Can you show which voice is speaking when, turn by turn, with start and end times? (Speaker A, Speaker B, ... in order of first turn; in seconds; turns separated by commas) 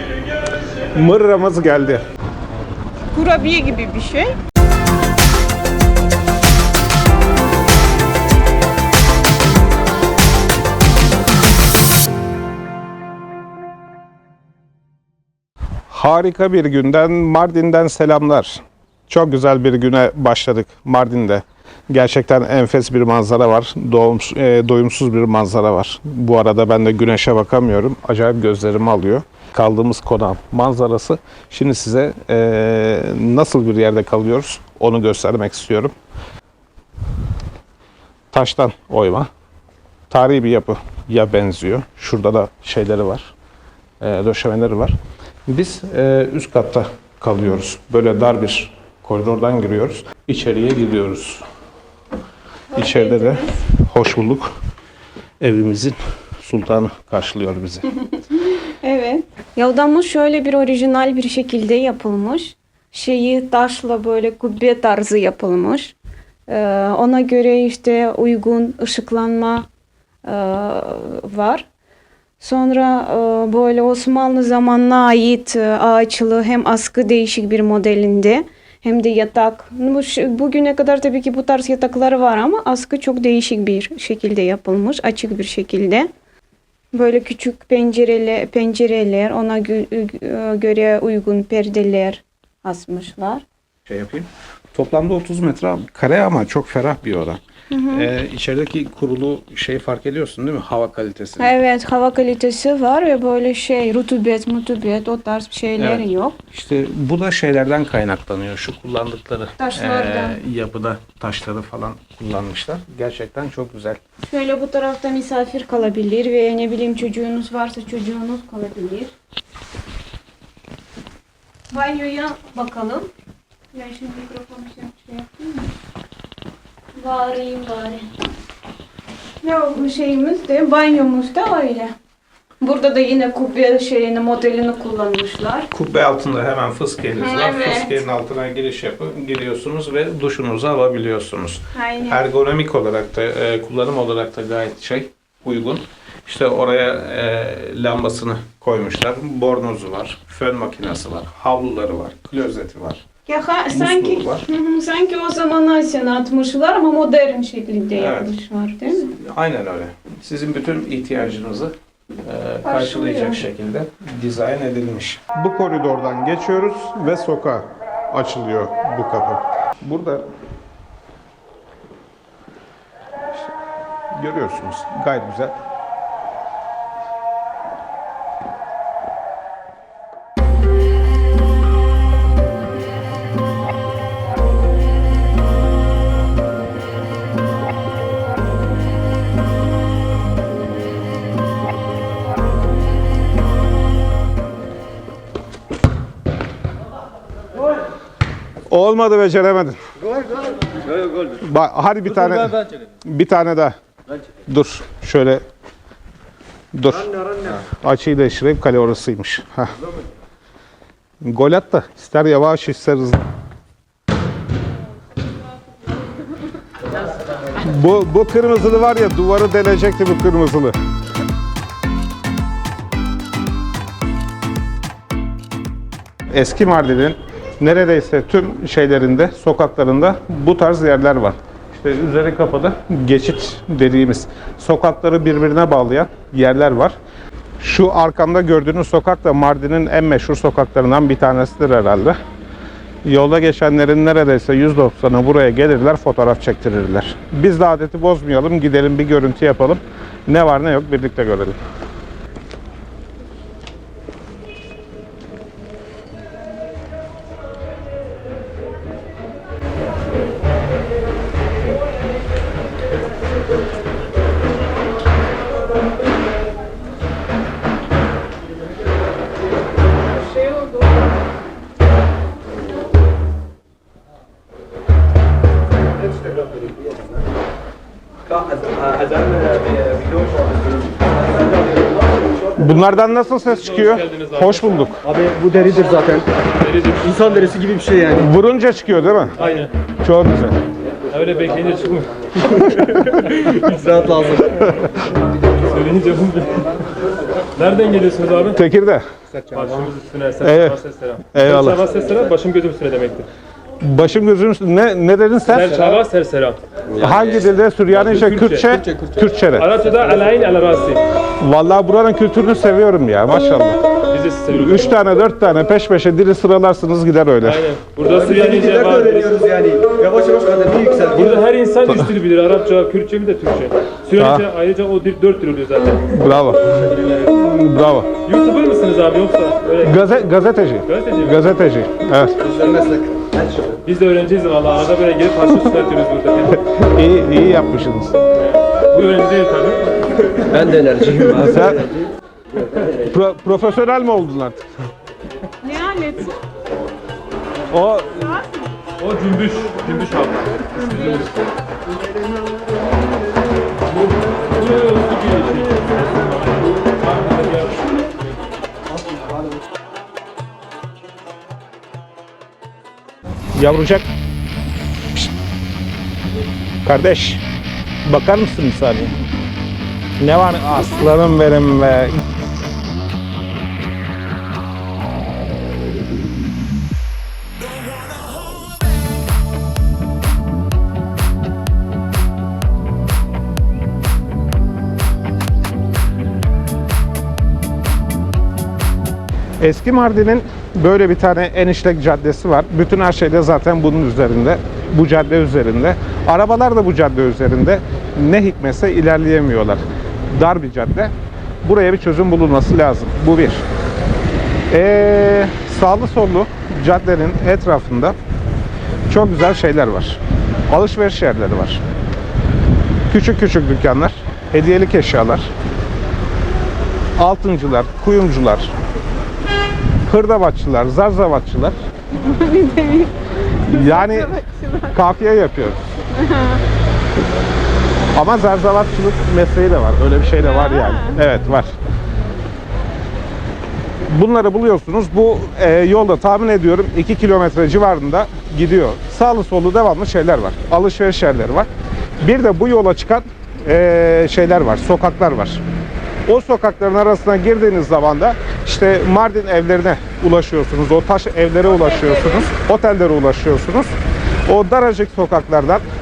Speaker A: 0.9-2.0, Speaker B: 3.1-4.3, Speaker A: 15.9-35.9, Speaker A: 38.3-39.3, Speaker A: 40.1-43.3, Speaker A: 44.0-45.0, Speaker A: 45.5-51.4, Speaker B: 52.7-53.6, Speaker A: 52.7-54.5, Speaker A: 55.4-57.9, Speaker B: 58.8-65.9, Speaker B: 66.5-69.7, Speaker B: 70.2-71.7, Speaker B: 72.4-86.1, Speaker B: 86.9-93.4, Speaker A: 93.8-101.6, Speaker B: 97.7-98.1, Speaker B: 101.4-106.4, Speaker A: 105.8-114.0, Speaker B: 109.6-110.4, Speaker B: 114.2-119.1, Speaker B: 121.7-123.1, Speaker B: 123.7-125.7, Speaker B: 127.0-128.1, Speaker B: 129.4-131.9, Speaker B: 132.6-135.7, Speaker A: 135.7-153.0, Speaker B: 137.2-138.0, Speaker B: 141.7-142.2, Speaker B: 153.2-159.1, Speaker A: 153.7-154.5, Speaker A: 157.9-158.3, Speaker A: 159.0-170.2, Speaker B: 162.6-163.4, Speaker A: 174.1-175.5, Speaker A: 198.7-199.8, Speaker A: 201.3-203.8, Speaker A: 204.4-205.4, Speaker A: 206.7-209.7, Speaker A: 211.2-213.2, Speaker A: 217.5-220.7, Speaker A: 226.3-236.9, Speaker A: 237.6-242.2, Speaker A: 243.0-251.6, Speaker C: 278.3-281.9, Speaker A: 282.6-285.0, Speaker D: 283.6-284.6, Speaker C: 285.0-286.3, Speaker D: 286.6-287.6, Speaker C: 287.0-288.2, Speaker A: 288.1-289.4, Speaker D: 289.4-289.7, Speaker A: 290.0-290.6, Speaker D: 291.1-293.9, Speaker C: 293.6-294.5, Speaker D: 295.6-296.9, Speaker D: 297.4-298.6, Speaker A: 298.5-299.0, Speaker D: 299.5-303.3, Speaker A: 300.4-301.9, Speaker A: 303.8-306.0, Speaker D: 305.5-306.6, Speaker C: 306.9-307.5, Speaker A: 307.0-309.8, Speaker D: 308.1-308.8, Speaker C: 308.8-309.3, Speaker D: 309.5-311.0, Speaker A: 311.4-313.8, Speaker D: 314.1-314.9, Speaker A: 314.5-317.7, Speaker D: 317.4-319.4, Speaker C: 318.0-321.4, Speaker D: 321.1-326.1, Speaker A: 324.1-324.4, Speaker A: 326.1-326.8, Speaker A: 327.3-328.1, Speaker D: 328.2-330.2, Speaker A: 329.8-332.4, Speaker D: 330.9-331.4, Speaker C: 332.4-333.8, Speaker D: 333.8-336.6, Speaker A: 336.5-338.1, Speaker D: 338.4-340.4, Speaker C: 340.5-341.9, Speaker A: 341.4-341.9, Speaker A: 343.0-344.6, Speaker B: 345.6-346.4, Speaker A: 347.7-348.4, Speaker D: 349.0-351.4, Speaker D: 354.5-356.2, Speaker D: 357.0-357.8, Speaker A: 363.5-364.1, Speaker A: 366.8-367.4, Speaker A: 368.0-369.1, Speaker A: 370.2-372.2, Speaker A: 389.6-403.6, Speaker A: 404.7-408.1, Speaker A: 409.1-411.8, Speaker A: 413.1-415.5, Speaker A: 417.2-418.7, Speaker A: 420.0-421.8, Speaker B: 422.1-423.1, Speaker A: 423.6-424.4, Speaker B: 423.6-424.9, Speaker A: 424.9-425.8, Speaker B: 426.1-426.6, Speaker A: 428.1-431.7, Speaker B: 430.4-431.2, Speaker A: 434.1-441.7, Speaker A: 442.2-445.6, Speaker A: 446.2-453.9, Speaker A: 454.4-455.8